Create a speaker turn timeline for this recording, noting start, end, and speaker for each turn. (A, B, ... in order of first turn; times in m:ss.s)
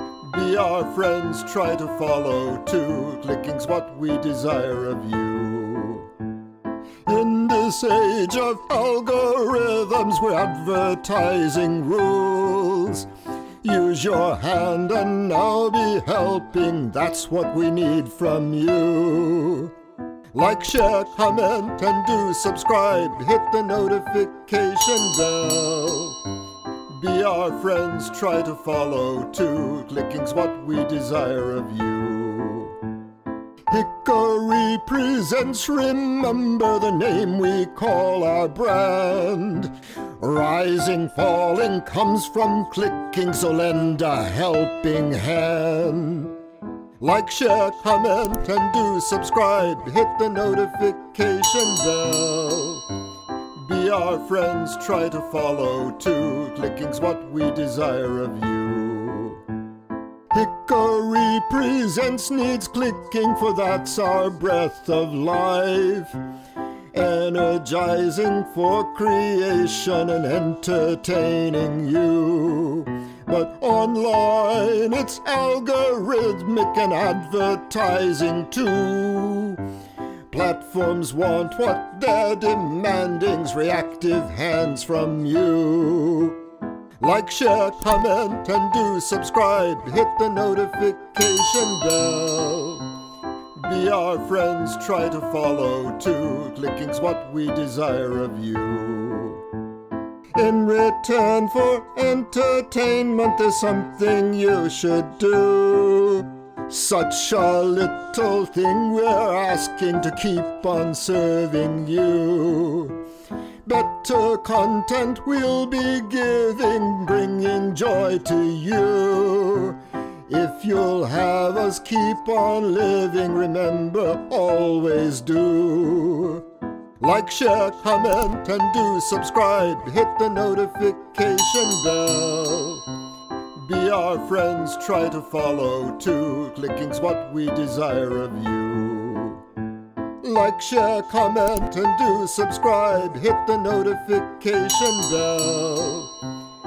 0:00.2-0:06.1 A
0:07.0-0:13.1 A
0:13.6-0:19.7 A
0:20.3-0:26.3 A
0:26.9-0:32.9 A
0:33.7-0:46.4 A
0:47.0-0:53.0 A
0:53.6-0:59.5 A
1:00.3-1:06.2 A
1:06.9-1:19.7 A
1:20.3-1:26.4 A
1:27.0-1:33.0 A
1:33.6-1:39.5 A
1:40.3-1:53.0 A
1:53.6-2:06.5 A
2:07.0-2:12.9 A
2:13.6-2:19.4 A
2:20.2-2:26.2 A